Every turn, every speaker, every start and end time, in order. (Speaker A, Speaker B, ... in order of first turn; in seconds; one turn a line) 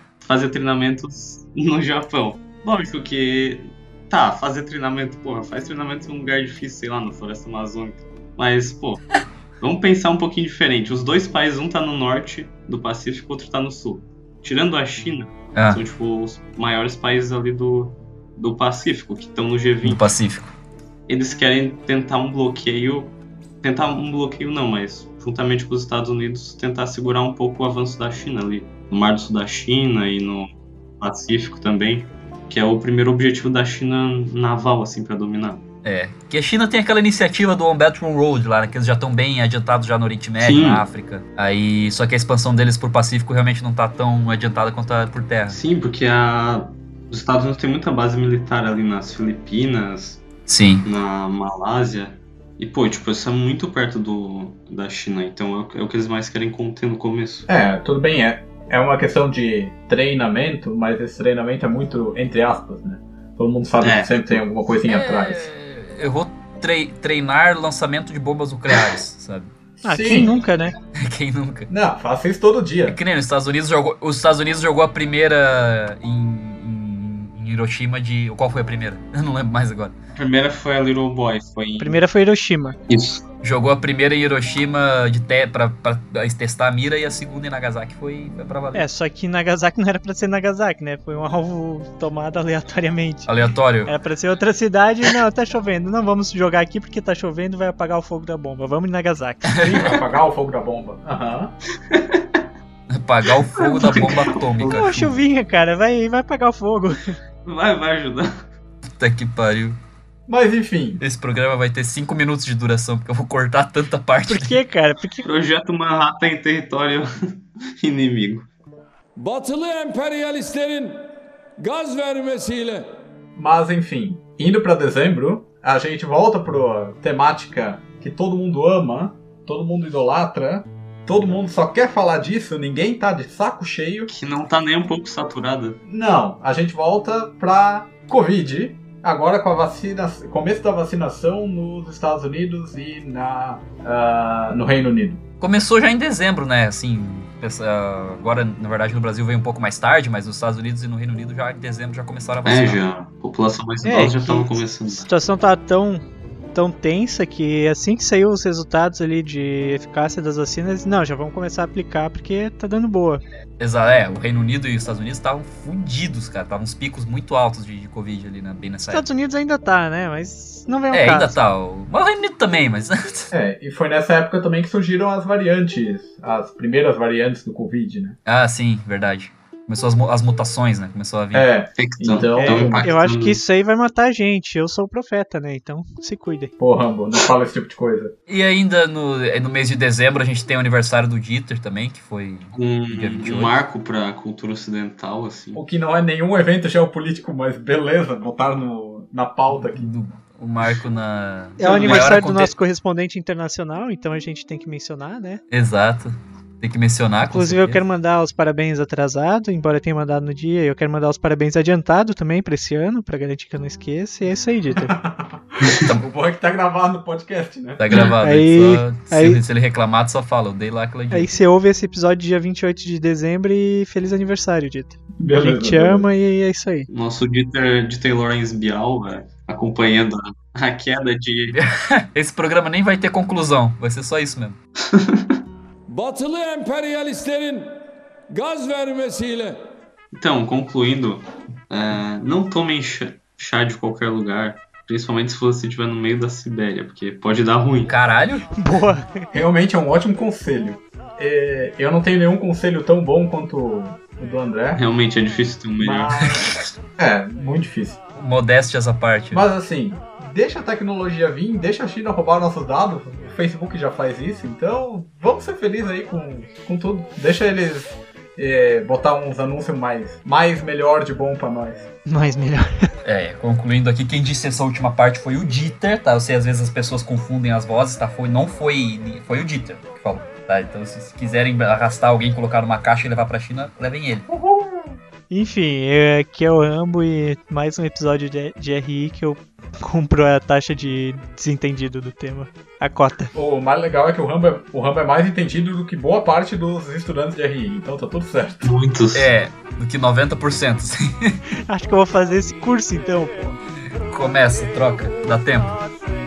Speaker A: 0.2-20.1
Speaker B: 15.6-15.8
Speaker B: 19.8-20.5
Speaker A: 21.1-35.6
Speaker B: 35.8-45.6
Speaker A: 40.4-40.8
Speaker A: 45.5-50.3
Speaker B: 50.5-50.9
Speaker A: 50.9-57.5
Speaker C: 57.5-65.5
Speaker A: 63.8-64.4
Speaker B: 65.1-69.5
Speaker C: 69.8-70.4
Speaker D: 69.8-70.7
Speaker B: 71.0-71.7
Speaker C: 71.7-73.0
Speaker B: 72.9-80.0
Speaker A: 80.2-82.0
Speaker D: 81.8-82.8
Speaker A: 82.9-83.2
Speaker B: 83.4-88.8
Speaker D: 88.7-93.3
Speaker B: 93.3-94.0
Speaker D: 93.8-99.7
Speaker B: 99.5-100.0
Speaker C: 99.6-101.5
Speaker A: 101.9-102.4
Speaker B: 102.9-105.2
Speaker A: 103.6-104.9
Speaker D: 104.7-107.2
Speaker A: 107.5-108.3
Speaker B: 108.9-109.8
Speaker C: 110.3-111.0
Speaker B: 111.0-114.6
Speaker D: 114.3-115.3
Speaker A: 115.2-117.1
Speaker A: 117.8-118.5
Speaker E: 119.1-121.1
Speaker E: 121.6-122.9
Speaker C: 123.4-134.1
Speaker A: 134.1-135.8
Speaker C: 135.9-145.2
Speaker B: 145.4-152.8
Speaker A: 152.4-155.1
Speaker D: 153.8-163.2
Speaker B: 163.6-169.1
Speaker D: 168.9-171.4
Speaker B: 170.9-173.3
Speaker C: 173.3-178.2
Speaker B: 178.3-181.5
Speaker C: 181.3-182.9
Speaker A: 181.8-183.4
Speaker D: 182.3-186.5
Speaker C: 186.6-188.1
Speaker B: 188.3-193.6
Speaker A: 192.6-195.6
Speaker C: 195.5-199.9
Speaker B: 199.5-202.5
Speaker D: 201.6-205.4
Speaker A: 201.8-202.1
Speaker B: 205.5-207.8
Speaker D: 207.2-214.9
Speaker C: 214.7-217.8
Speaker B: 217.8-221.3
Speaker D: 218.2-219.4
Speaker D: 221.1-226.9
Speaker C: 225.2-226.1
Speaker A: 226.9-231.6
Speaker B: 231.5-234.6
Speaker A: 234.9-235.3
Speaker E: 235.9-237.8
Speaker E: 238.3-239.6
Speaker A: 240.1-247.9
Speaker B: 247.9-248.5
Speaker D: 248.5-249.3
Speaker C: 249.3-254.8
Speaker A: 254.7-256.3
Speaker C: 255.8-258.0
Speaker B: 258.2-259.4
Speaker C: 259.3-271.9
Speaker D: 272.1-272.9
Speaker B: 273.0-284.3
Speaker C: 284.3-285.0
Speaker D: 285.3-293.3
Speaker C: 293.4-298.7
Speaker A: 298.6-299.3
Speaker B: 299.1-301.4
Speaker D: 301.7-303.6
Speaker B: 304.1-305.8